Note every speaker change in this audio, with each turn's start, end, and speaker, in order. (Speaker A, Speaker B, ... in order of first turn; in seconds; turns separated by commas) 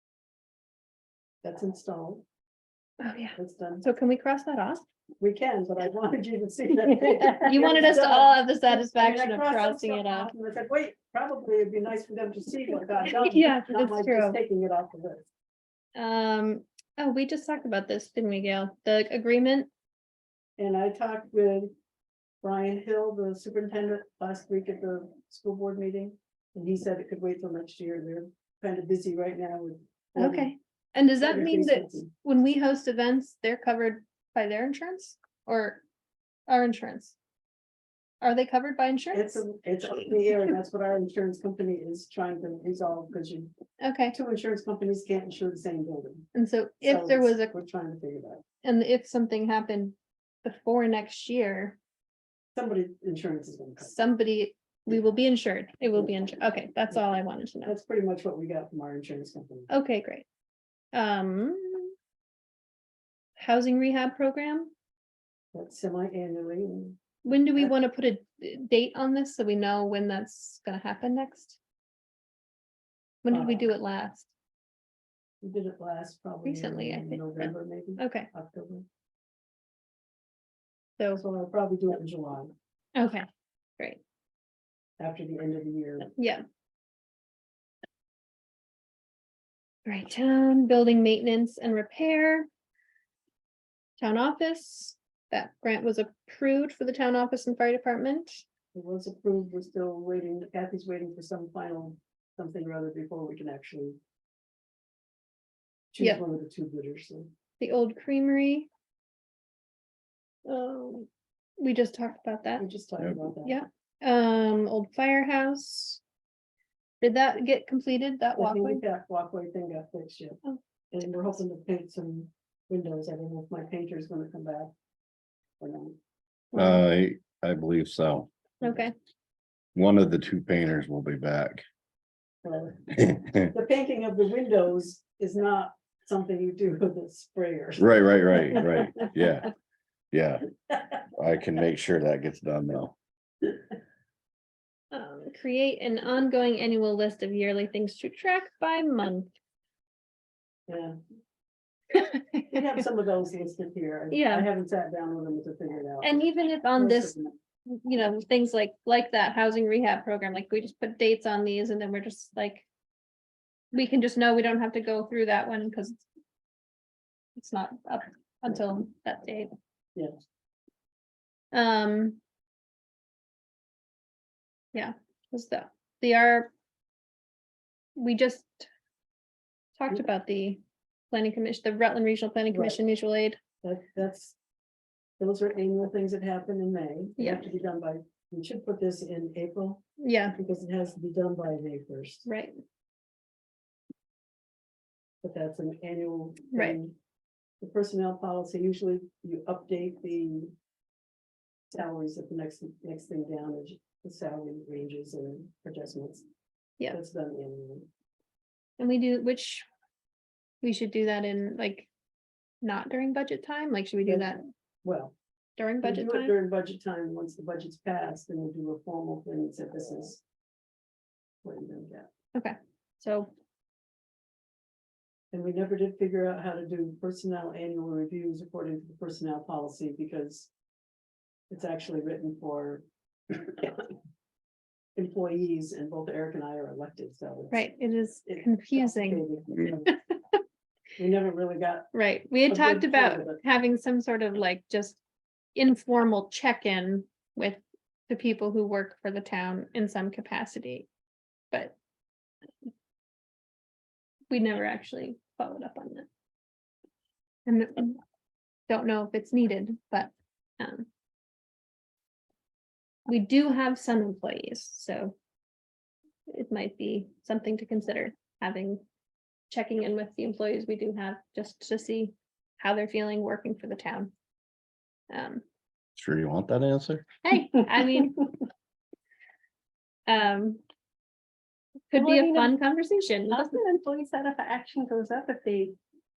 Speaker A: 1.4-2.2, Speaker B: 3.0-4.8, Speaker A: 3.4-3.8, Speaker A: 5.2-15.3, Speaker B: 7.0-10.3, Speaker B: 13.0-14.4, Speaker B: 15.9-19.7, Speaker A: 20.6-21.7, Speaker A: 22.4-30.5, Speaker B: 30.2-35.8, Speaker A: 31.2-32.1, Speaker B: 36.5-37.1, Speaker B: 38.2-39.4, Speaker A: 39.1-43.5, Speaker B: 43.8-44.1, Speaker A: 44.1-46.3, Speaker B: 46.3-47.5, Speaker A: 46.8-48.4, Speaker B: 48.6-51.8, Speaker A: 52.5-53.9, Speaker B: 53.8-57.7, Speaker A: 57.6-59.7, Speaker B: 59.7-60.2, Speaker B: 60.9-61.9, Speaker B: 63.4-64.7, Speaker A: 65.5-67.8, Speaker B: 67.2-71.6, Speaker B: 73.2-74.3, Speaker A: 73.3-73.7, Speaker A: 75.4-78.8, Speaker B: 76.4-78.3, Speaker A: 81.1-82.5, Speaker B: 82.9-83.2, Speaker A: 85.0-86.1, Speaker B: 86.2-86.4, Speaker B: 89.8-92.5, Speaker B: 94.0-98.4, Speaker A: 98.7-104.0, Speaker A: 105.9-107.3, Speaker B: 107.6-108.7, Speaker B: 110.5-112.6, Speaker A: 112.6-113.6, Speaker B: 113.4-116.0, Speaker B: 117.0-118.8, Speaker A: 118.3-120.4, Speaker B: 120.5-121.1, Speaker A: 120.9-124.7, Speaker A: 125.6-126.0, Speaker C: 126.5-128.3, Speaker B: 126.5-126.8, Speaker B: 128.6-128.9, Speaker C: 129.7-131.6, Speaker A: 132.4-139.0, Speaker C: 132.9-133.5, Speaker C: 137.8-139.5, Speaker C: 140.1-140.4, Speaker C: 141.1-142.9, Speaker B: 144.9-149.3, Speaker A: 150.7-150.9, Speaker B: 151.9-152.8, Speaker A: 152.5-157.3, Speaker B: 154.1-154.5, Speaker B: 156.0-162.7, Speaker B: 163.7-166.0, Speaker B: 167.3-169.5, Speaker B: 171.5-172.2, Speaker B: 174.7-176.5, Speaker B: 177.9-178.7, Speaker B: 179.8-183.4, Speaker A: 182.5-182.8, Speaker A: 183.6-184.4, Speaker A: 185.2-189.8, Speaker B: 187.2-187.4, Speaker B: 190.0-190.3, Speaker A: 190.3-192.2, Speaker B: 192.2-192.5, Speaker A: 195.2-196.9, Speaker A: 197.6-200.5, Speaker A: 201.7-206.2, Speaker A: 206.9-207.9, Speaker B: 208.8-209.6, Speaker B: 210.6-211.9, Speaker B: 212.6-214.4, Speaker A: 214.1-215.1, Speaker B: 215.6-216.3, Speaker A: 215.8-220.2, Speaker A: 221.4-222.1, Speaker B: 222.3-223.3, Speaker A: 225.3-230.5, Speaker A: 231.5-233.9, Speaker A: 234.9-237.7, Speaker B: 237.5-239.3, Speaker A: 238.3-239.9, Speaker A: 241.0-241.9, Speaker B: 241.9-245.0, Speaker A: 242.5-243.4, Speaker B: 245.5-250.9, Speaker B: 254.3-256.1, Speaker B: 257.4-258.0, Speaker B: 258.7-260.9, Speaker B: 263.1-265.1, Speaker B: 266.3-268.8, Speaker B: 269.5-274.1, Speaker B: 275.1-275.4, Speaker C: 276.0-277.2, Speaker B: 277.2-278.2, Speaker D: 277.4-278.1, Speaker B: 280.1-280.6, Speaker B: 281.9-283.5, Speaker D: 281.9-282.5, Speaker D: 283.3-285.8